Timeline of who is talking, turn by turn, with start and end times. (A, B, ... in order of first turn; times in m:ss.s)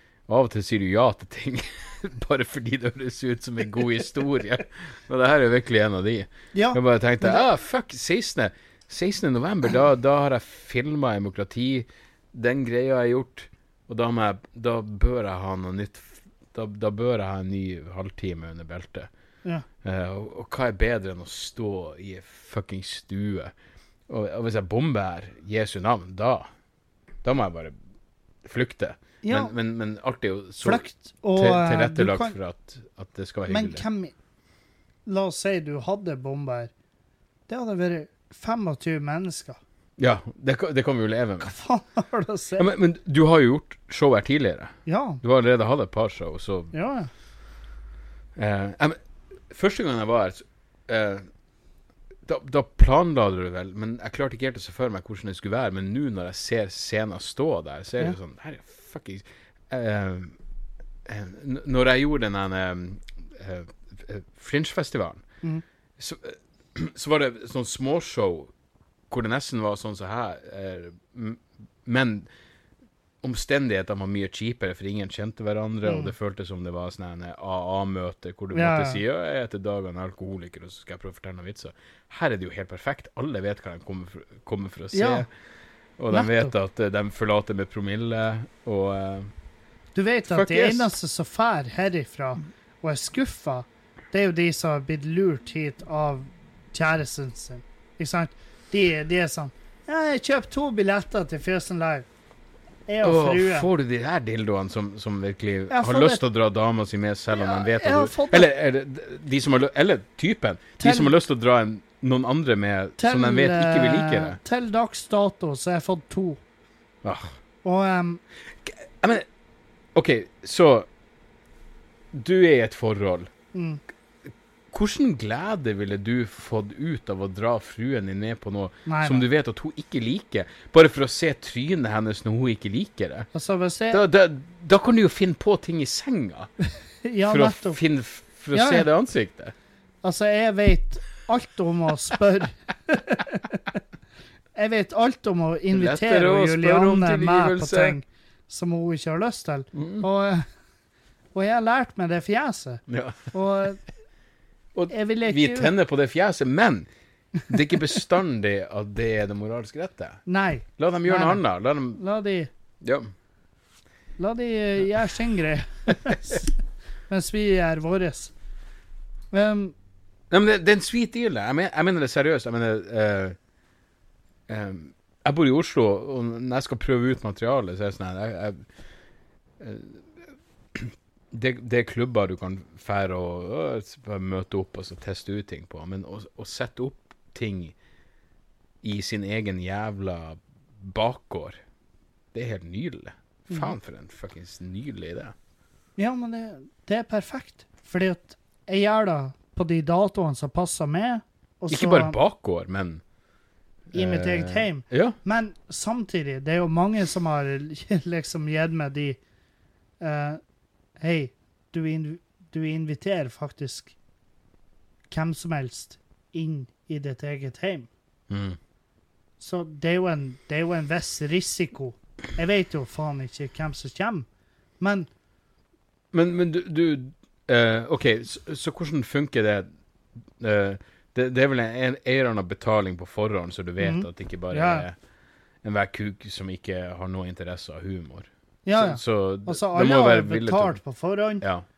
0:00.3-0:19.1 A
0:06.5-0:07.4 B
0:19.8-0:23.5 A
0:24.1-0:26.5 A
0:27.2-0:27.8 A
0:28.4-0:30.8 A
0:29.2-0:29.5 B
0:30.6-0:32.4 B
0:31.4-0:33.8 A
0:33.5-0:34.2 B
0:35.1-0:36.7 B
0:37.5-0:39.6 B
0:40.0-0:41.5 A
0:41.4-0:42.7 B
0:42.6-0:46.7 A
0:44.9-0:45.2 B
0:46.7-0:47.1 B
0:48.4-0:49.0 A
0:49.5-0:51.2 A
0:52.2-1:00.4 A
1:01.0-1:05.2 A
1:06.0-1:08.5 A
1:09.1-1:12.3 A
1:13.2-1:25.3 A
1:15.8-1:16.1 B
1:18.5-1:19.0 B
1:24.9-1:25.3 B
1:26.0-1:29.3 A
1:26.1-1:26.5 B
1:30.0-1:42.1 B
1:30.3-1:30.9 A
1:42.9-1:43.7 B
1:43.0-1:54.4 A
1:45.7-1:46.2 B
1:47.3-1:48.5 B
1:50.8-1:51.1 B
1:53.0-1:56.4 B
1:57.0-1:57.4 A
1:57.6-1:58.2 B
1:58.5-1:59.3 A
2:00.0-2:00.9 A
2:02.1-2:03.3 A
2:03.5-2:03.8 B
2:04.7-2:13.3 A
2:08.9-2:09.2 B
2:13.3-2:14.0 B
2:13.9-2:16.5 A
2:17.0-2:17.8 B
2:17.3-2:19.6 A
2:18.5-2:18.9 B
2:20.0-2:23.8 B
2:24.6-2:30.4 B
2:25.7-2:28.0 A
2:29.8-2:30.0 A
2:31.4-2:33.8 B
2:32.9-2:33.3 A
2:34.7-2:36.9 A
2:34.9-2:35.7 B
2:37.5-2:40.2 A
2:40.3-2:41.4 B
2:40.8-2:42.0 A
2:41.9-2:42.5 B
2:42.8-2:43.1 A
2:44.2-2:46.6 B
2:47.1-2:48.3 B
2:49.3-2:49.7 B
2:50.3-2:53.4 A
2:54.5-2:58.6 A
2:59.6-3:07.8 A
3:08.8-3:11.6 A
3:12.3-3:15.4 A
3:16.0-3:22.2 B
3:21.7-3:23.0 A
3:23.9-3:25.2 A
3:23.9-3:29.2 B
3:30.0-3:30.4 B
3:31.0-3:34.0 B
3:35.1-3:37.9 B
3:38.3-3:38.6 A
3:39.4-3:44.3 B
3:44.8-3:45.1 B
3:46.1-3:49.7 A
3:50.4-3:55.0 A
3:53.8-3:54.9 B
3:55.6-4:00.8 A
3:58.6-4:01.4 B